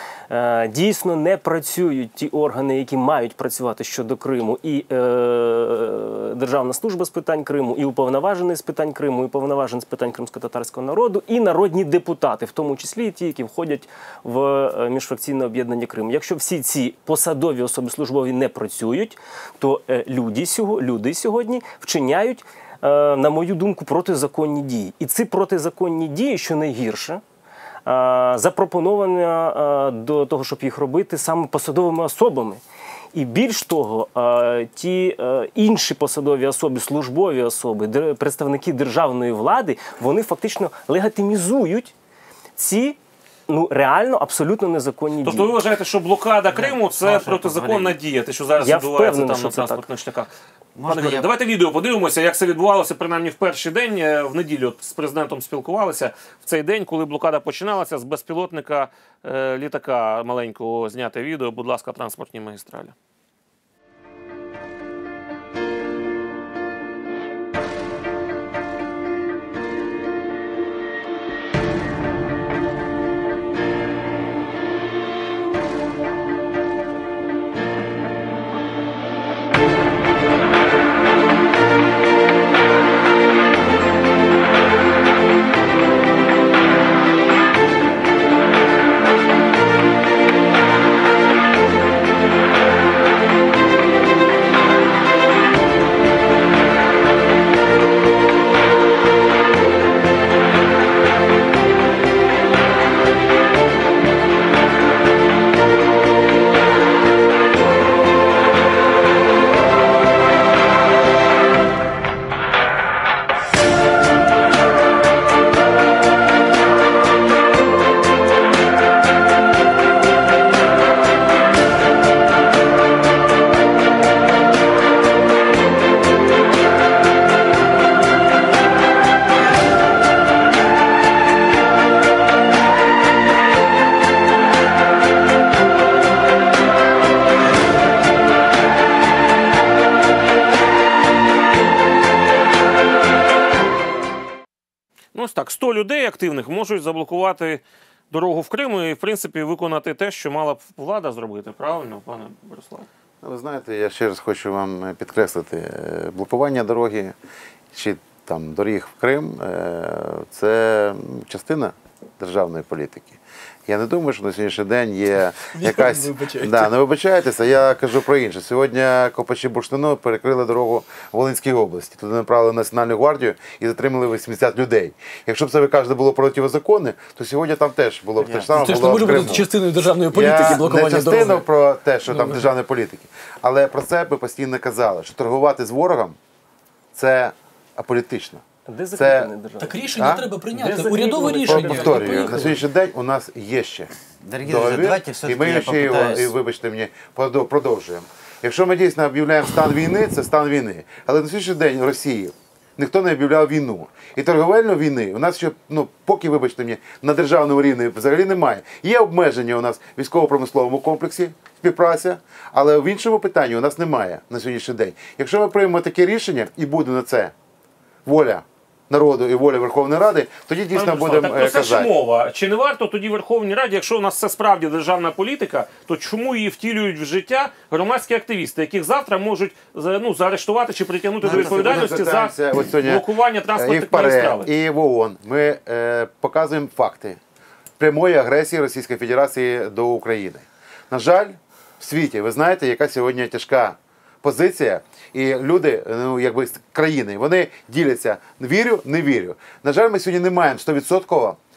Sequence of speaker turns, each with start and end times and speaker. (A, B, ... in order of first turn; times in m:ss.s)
0:00.3-0:27.2 A
0:27.8-0:32.6 A
0:33.1-0:41.9 A
0:42.6-0:45.6 A
0:45.2-0:50.3 B
0:46.5-0:48.0 C
0:48.6-0:49.8 A
0:50.8-0:51.3 C
0:50.8-1:02.9 B
2:25.1-2:32.9 B
2:33.2-2:37.1 D
2:37.7-2:59.4 D
2:45.5-2:46.7 E
2:58.2-3:01.5 E
3:00.1-3:06.2 D
3:02.1-3:02.5 E
3:06.9-3:08.4 D
3:08.7-3:09.8 A
3:08.9-3:09.3 D
3:09.6-3:12.6 E
3:10.0-3:10.2 D
3:10.5-3:12.6 A
3:11.3-3:13.9 D
3:14.2-3:16.3 C
3:14.4-3:37.3 D
3:38.0-3:41.9 D
3:40.7-3:54.5 B
3:51.2-3:57.2 D
3:57.8-4:11.4 D